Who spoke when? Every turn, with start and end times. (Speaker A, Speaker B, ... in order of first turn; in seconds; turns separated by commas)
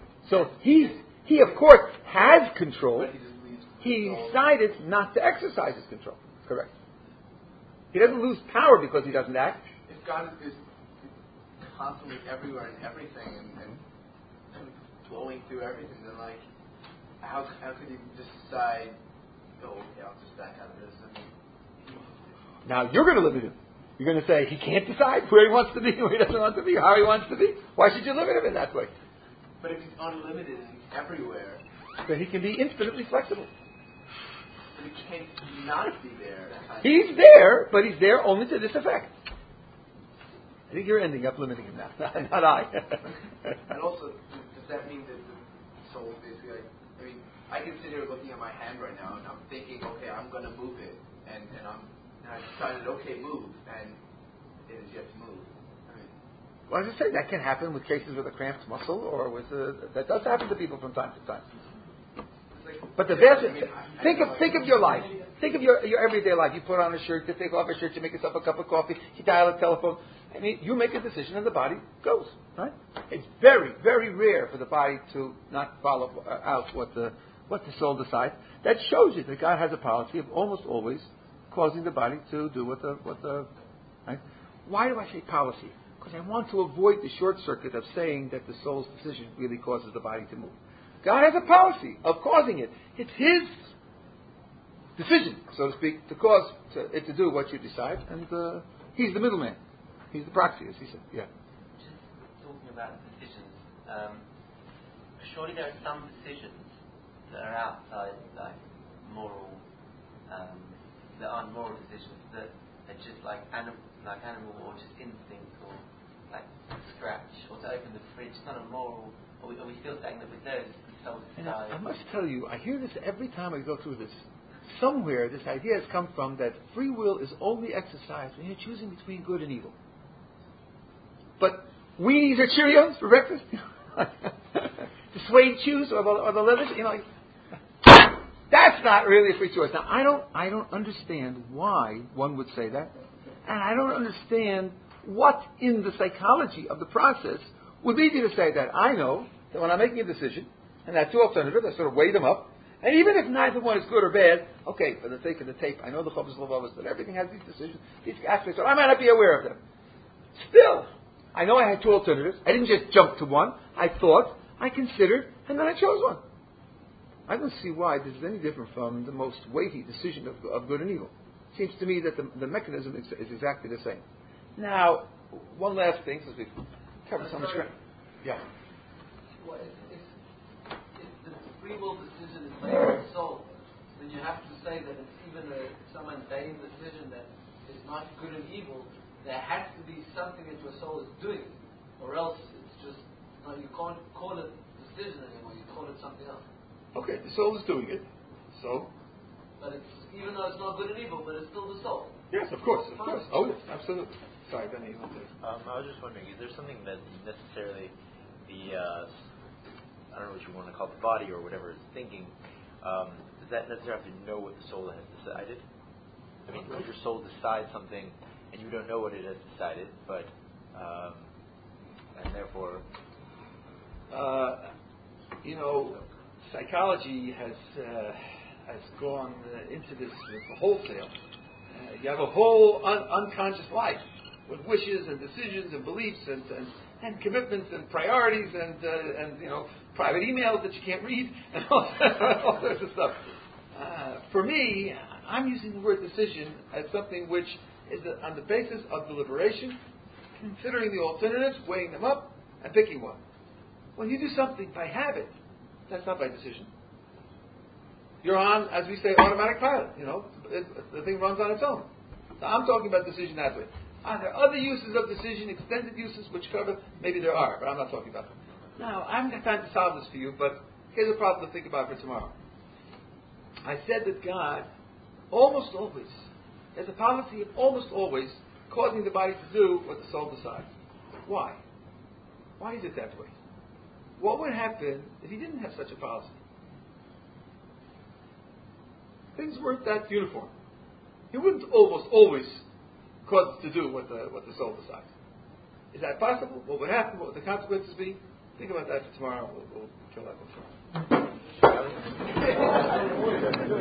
Speaker A: 0.2-3.1, Speaker B: 0.3-1.4, Speaker B: 3.0-4.4, Speaker A: 3.8-6.7, Speaker A: 7.9-9.6, Speaker B: 9.9-11.1, Speaker B: 11.6-13.8, Speaker B: 14.5-16.4, Speaker B: 17.2-19.0, Speaker B: 19.6-21.3, Speaker B: 21.8-22.3, Speaker A: 22.7-28.9, Speaker B: 29.6-31.6, Speaker A: 32.0-33.5, Speaker B: 34.7-37.0, Speaker A: 36.8-39.1, Speaker A: 40.7-43.6, Speaker B: 43.7-54.0, Speaker B: 54.7-56.1, Speaker A: 56.7-61.5, Speaker B: 62.5-65.3, Speaker A: 63.0-83.5, Speaker A: 84.1-93.7, Speaker A: 95.0-99.6, Speaker A: 100.1-101.3, Speaker C: 101.8-104.2, Speaker C: 105.2-106.7, Speaker C: 107.3-109.6, Speaker C: 110.3-121.8, Speaker A: 121.4-129.8, Speaker A: 131.4-137.1, Speaker A: 137.8-142.9, Speaker A: 143.4-159.6, Speaker A: 160.3-166.2, Speaker A: 167.3-174.0, Speaker A: 174.6-177.7, Speaker D: 177.2-177.7, Speaker D: 179.4-180.1, Speaker D: 180.9-196.4, Speaker A: 196.9-198.9, Speaker D: 199.6-202.2, Speaker A: 202.3-205.3, Speaker E: 205.4-207.9, Speaker E: 208.4-209.1, Speaker E: 210.1-215.6, Speaker E: 216.5-221.3, Speaker E: 222.2-222.8, Speaker A: 224.1-224.7, Speaker A: 225.4-231.1, Speaker A: 231.7-249.8, Speaker A: 250.4-253.2, Speaker A: 254.0-255.4, Speaker A: 255.9-256.7, Speaker A: 258.2-272.4, Speaker A: 273.6-274.7, Speaker A: 275.3-280.7, Speaker A: 281.2-281.6, Speaker A: 282.6-283.4, Speaker A: 284.2-286.4, Speaker A: 289.4-290.5, Speaker A: 291.3-292.7, Speaker A: 293.3-295.1, Speaker A: 295.9-300.7